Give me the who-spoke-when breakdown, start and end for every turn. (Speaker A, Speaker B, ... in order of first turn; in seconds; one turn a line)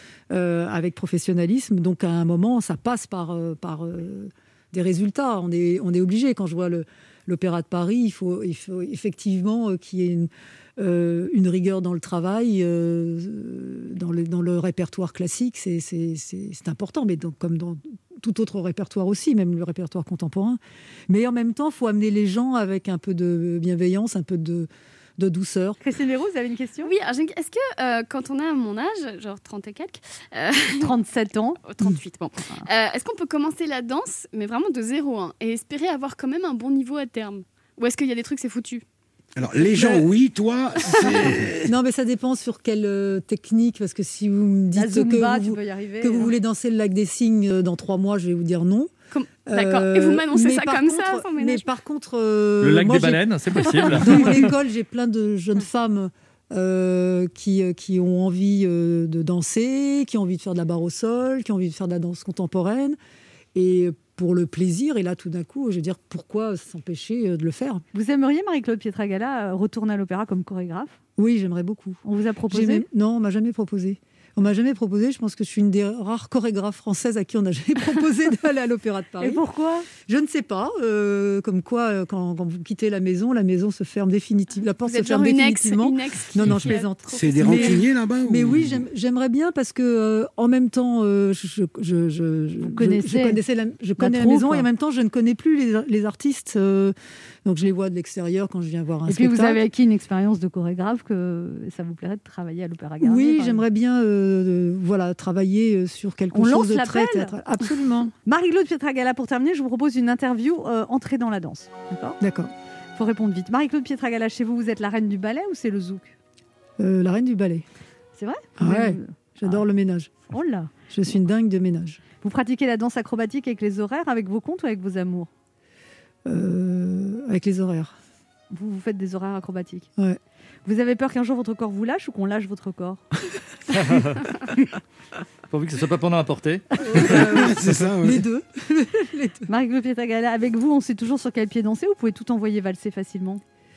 Speaker A: 0.3-25.8
Speaker B: 25.8-26.9
Speaker C: 26.8-30.9
Speaker B: 30.8-31.6
Speaker C: 31.6-38.8
Speaker D: 39.4-41.7
Speaker A: 39.6-40.1
Speaker A: 41.2-48.9
Speaker B: 44.7-46.4
Speaker C: 49.1-51.7
Speaker A: 49.5-63.0
Speaker E: 52.6-54.5
Speaker C: 53.6-54.1
Speaker A: 63.5-67.8
Speaker B: 67.9-71.0
Speaker A: 71.2-79.4
Speaker B: 72.0-72.8
Speaker B: 79.2-79.9
Speaker A: 80.0-99.6
Speaker C: 84.8-87.8
Speaker D: 87.1-88.8
Speaker B: 92.6-93.4
Speaker B: 94.0-94.7
Speaker B: 99.1-103.6
Speaker A: 103.0-108.1
Speaker B: 106.3-107.3
Speaker B: 108.2-112.2
Speaker A: 112.2-112.5
Speaker B: 113.0-116.1
Speaker A: 116.8-117.6
Speaker B: 118.2-119.7
Speaker A: 118.6-120.1
Speaker B: 120.3-120.7
Speaker A: 120.9-122.0
Speaker B: 122.2-125.3
Speaker A: 126.3-128.0
Speaker B: 128.5-129.9
Speaker B: 130.7-133.1
Speaker E: 133.7-134.3
Speaker E: 135.5-137.2
Speaker A: 136.9-139.5
Speaker D: 137.0-138.2
Speaker B: 139.5-143.4